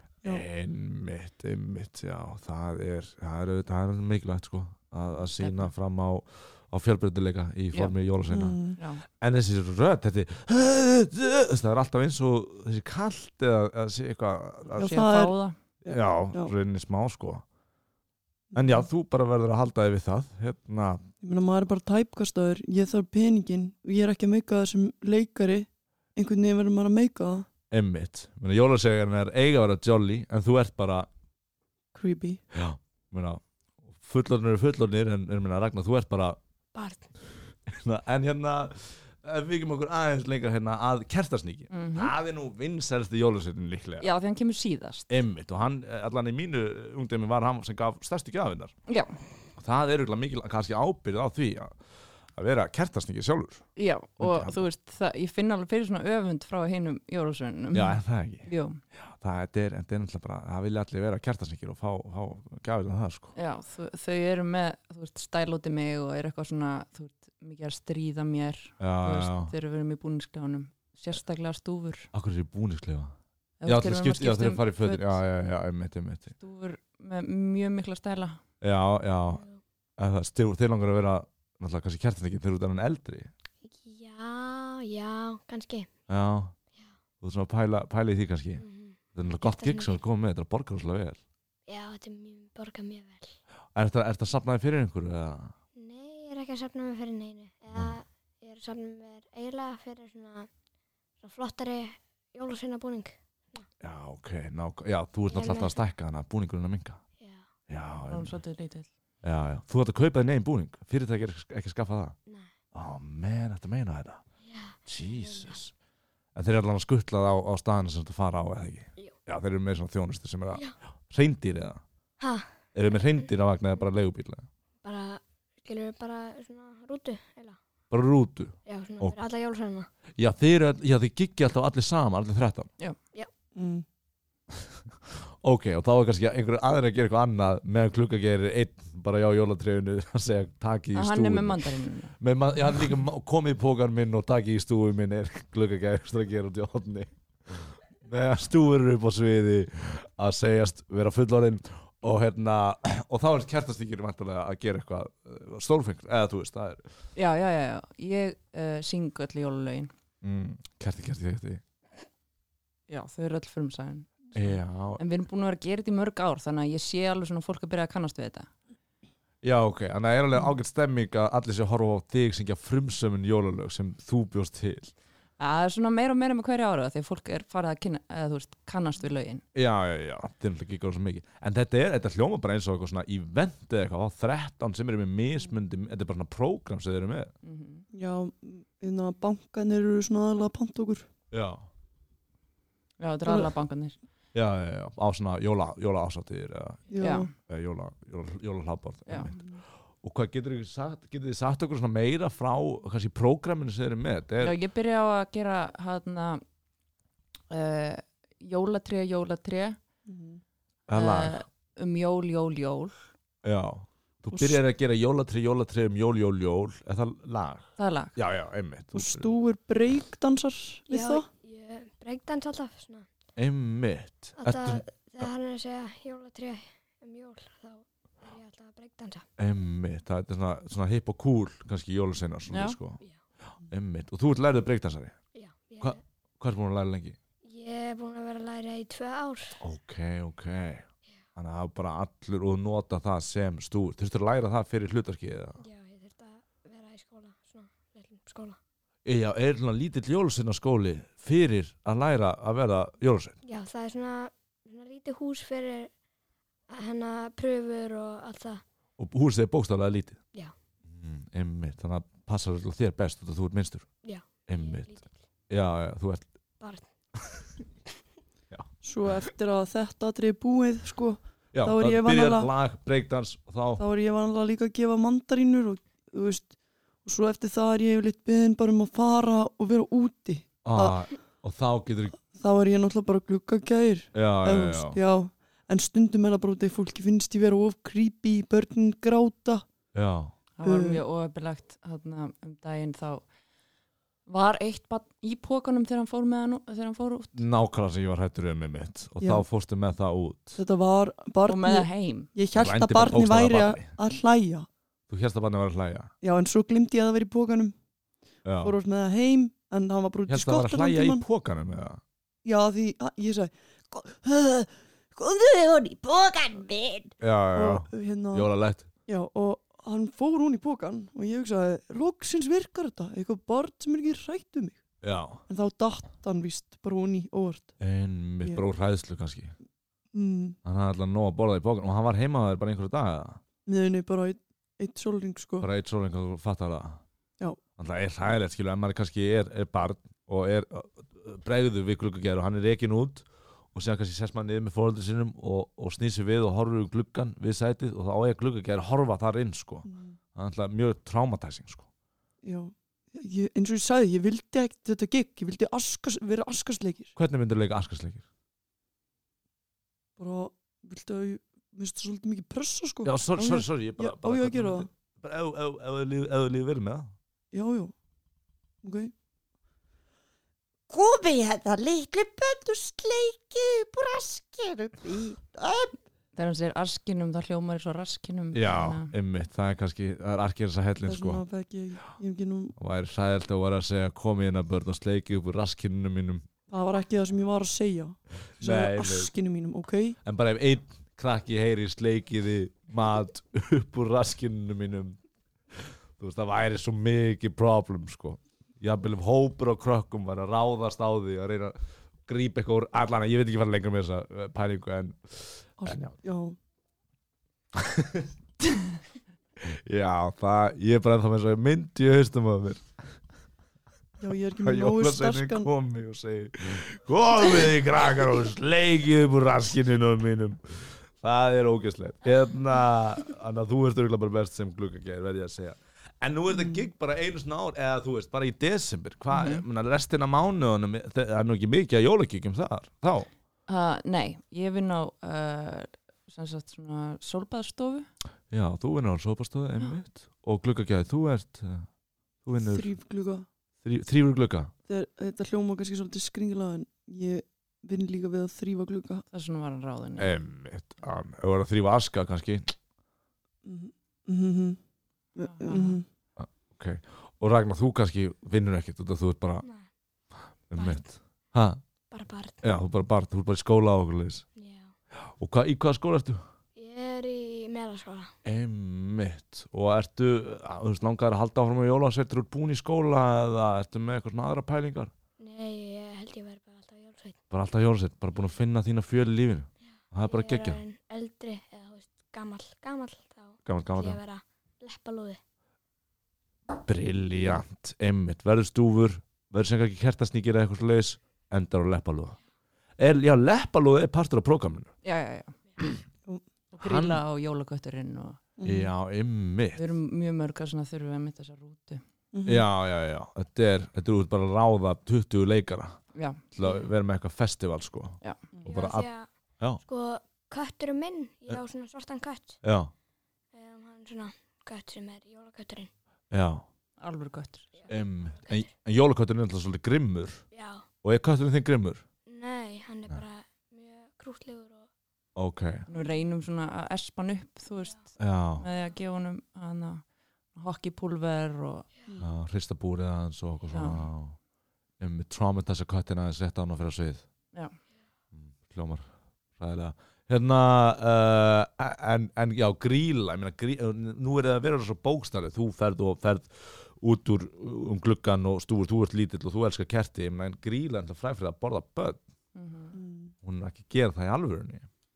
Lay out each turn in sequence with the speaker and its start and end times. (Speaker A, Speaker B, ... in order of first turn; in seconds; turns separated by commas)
Speaker A: 0.2-8.6, Speaker B: 5.4-5.7, Speaker C: 8.3-8.8, Speaker B: 8.8-9.0, Speaker A: 9.2-14.9, Speaker C: 14.8-15.3, Speaker B: 14.8-15.6, Speaker C: 15.8-16.5, Speaker A: 15.8-17.4, Speaker C: 18.5-18.8, Speaker A: 18.6-21.1, Speaker C: 21.2-27.5, Speaker A: 27.7-31.1, Speaker C: 31.9-32.4, Speaker A: 32.5-36.4, Speaker D: 36.7-37.1, Speaker A: 37.7-44.1, Speaker B: 41.7-42.1, Speaker B: 44.0-45.1, Speaker A: 45.1-48.7, Speaker B: 48.9-49.2, Speaker A: 49.5-51.7, Speaker A: 52.4-53.6, Speaker B: 53.8-58.8, Speaker A: 54.2-54.6, Speaker A: 57.7-63.3, Speaker B: 63.3-72.1, Speaker A: 68.8-69.5, Speaker A: 72.1-73.1, Speaker B: 73.6-75.2, Speaker A: 73.7-76.3, Speaker B: 76.4-78.4, Speaker A: 78.6-79.4, Speaker D: 79.3-79.6, Speaker A: 80.0-83.3, Speaker D: 83.6-85.9, Speaker A: 86.1-86.5, Speaker A: 87.2-88.6, Speaker D: 88.6-90.0, Speaker A: 89.1-91.2, Speaker D: 91.7-93.3, Speaker A: 93.7-95.5, Speaker D: 95.8-100.5, Speaker D: 101.2-103.7, Speaker A: 103.8-107.0, Speaker D: 105.3-105.7, Speaker D: 107.2-107.5, Speaker A: 107.7-108.3, Speaker B: 108.1-108.9, Speaker A: 109.2-112.1, Speaker A: 112.7-114.2, Speaker D: 114.5-115.5, Speaker A: 114.8-115.7, Speaker A: 116.3-121.8, Speaker D: 122.2-122.5, Speaker A: 122.7-124.5, Speaker D: 124.8-127.6, Speaker A: 127.9-129.2, Speaker D: 128.7-129.9, Speaker A: 130.2-132.7, Speaker C: 133.6-133.8, Speaker A: 135.2-156.9, Speaker B: 140.9-142.2, Speaker B: 157.1-159.9, Speaker A: 160.2-161.6, Speaker B: 162.9-168.5, Speaker A: 164.3-165.0, Speaker A: 169.4-174.9, Speaker B: 175.4-179.4, Speaker A: 179.5-187.3, Speaker B: 187.4-187.8, Speaker C: 187.9-191.1, Speaker A: 191.3-191.6, Speaker B: 193.0-194.0, Speaker A: 194.3-196.9, Speaker C: 196.9-197.3, Speaker B: 197.0-197.3, Speaker A: 197.4-199.4, Speaker A: 200.0-204.6, Speaker B: 204.4-206.4, Speaker B: 207.5-209.8, Speaker C: 210.1-210.4, Speaker A: 210.9-211.4, Speaker B: 210.9-212.9, Speaker A: 213.4-219.3, Speaker C: 214.3-214.6, Speaker B: 217.8-218.1, Speaker C: 218.9-221.2, Speaker D: 220.9-223.1, Speaker A: 223.3-225.3, Speaker D: 224.4-229.2, Speaker A: 229.4-235.2, Speaker B: 232.5-232.8, Speaker D: 235.3-236.0, Speaker A: 235.8-237.2, Speaker D: 237.4-239.6, Speaker A: 239.6-245.6, Speaker D: 245.6-248.6, Speaker A: 249.0-253.4, Speaker D: 253.4-255.9, Speaker D: 256.7-258.6, Speaker A: 259.0-260.2, Speaker A: 260.9-263.9, Speaker D: 264.0-265.2, Speaker A: 264.5-264.9, Speaker A: 265.5-266.3, Speaker D: 266.6-266.9, Speaker C: 268.8-272.5, Speaker A: 271.5-273.8, Speaker C: 273.8-281.0, Speaker A: 280.6-282.2, Speaker C: 282.3-289.6, Speaker A: 284.1-285.0, Speaker A: 289.9-290.3, Speaker B: 290.6-293.2, Speaker C: 290.6-291.0, Speaker B: 294.2-297.4, Speaker A: 297.3-300.6, Speaker C: 299.2-299.4, Speaker C: 300.6-304.7, Speaker B: 301.4-302.3, Speaker A: 302.5-303.9, Speaker A: 305.1-306.1, Speaker C: 306.2-307.7, Speaker A: 308.4-308.7, Speaker C: 308.6-311.2, Speaker A: 310.3-312.0, Speaker C: 312.4-318.5, Speaker E: 316.2-317.0, Speaker A: 317.2-318.9, Speaker C: 319.1-324.8, Speaker A: 325.0-325.4, Speaker C: 325.5-327.7, Speaker A: 327.8-329.5, Speaker C: 330.1-330.6, Speaker A: 330.6-333.4, Speaker C: 333.7-335.7, Speaker A: 335.6-337.0, Speaker A: 337.8-351.9, Speaker C: 349.9-350.2, Speaker C: 352.4-357.1, Speaker A: 357.1-358.2, Speaker C: 360.2-364.9, Speaker A: 363.0-367.1, Speaker C: 367.5-367.9, Speaker C: 368.8-369.1, Speaker E: 370.9-375.9, Speaker B: 376.3-379.1, Speaker A: 378.5-381.4, Speaker C: 381.0-382.7, Speaker A: 382.8-386.4, Speaker C: 386.7-390.2, Speaker A: 388.6-389.3, Speaker A: 390.2-395.2, Speaker A: 395.8-406.1, Speaker C: 405.8-406.6, Speaker A: 407.7-408.3, Speaker A: 409.6-412.8, Speaker C: 414.2-415.7, Speaker A: 414.6-433.3, Speaker B: 429.3-429.6, Speaker B: 433.7-438.1, Speaker A: 438.5-441.9, Speaker A: 442.4-442.9, Speaker C: 442.6-443.4, Speaker A: 443.8-444.7, Speaker C: 444.9-449.2, Speaker B: 449.3-450.4, Speaker A: 450.2-452.7, Speaker C: 453.6-454.8, Speaker C: 455.4-456.1, Speaker B: 455.5-455.9, Speaker A: 456.4-459.6, Speaker D: 459.6-459.9, Speaker A: 460.7-461.8, Speaker D: 462.1-462.8, Speaker A: 462.6-464.4, Speaker D: 464.6-464.9, Speaker A: 465.2-466.4, Speaker D: 466.8-468.3, Speaker A: 468.4-475.1, Speaker D: 475.4-477.4, Speaker A: 477.5-480.8, Speaker D: 480.2-485.4, Speaker A: 483.6-484.2, Speaker A: 486.8-492.4, Speaker A: 493.0-494.9, Speaker B: 495.0-496.0, Speaker B: 496.7-498.4, Speaker A: 496.8-497.2, Speaker C: 498.6-498.9, Speaker A: 498.6-499.8, Speaker B: 499.8-502.0, Speaker C: 502.3-502.7, Speaker A: 502.4-506.0, Speaker B: 506.1-506.4, Speaker A: 506.5-509.1, Speaker D: 506.6-506.9, Speaker D: 508.6-512.6, Speaker A: 512.6-512.9, Speaker D: 513.5-515.9, Speaker A: 516.3-516.6, Speaker B: 517.0-517.7, Speaker D: 517.8-518.7, Speaker A: 517.9-520.4, Speaker D: 520.5-520.9, Speaker A: 521.0-522.0, Speaker D: 522.3-524.9, Speaker A: 525.4-525.9, Speaker B: 525.9-531.9, Speaker A: 528.2-528.6, Speaker A: 532.2-534.4, Speaker B: 533.7-534.0, Speaker A: 535.0-537.2, Speaker A: 538.3-552.2, Speaker B: 552.5-553.0, Speaker C: 552.9-553.3, Speaker A: 553.4-554.9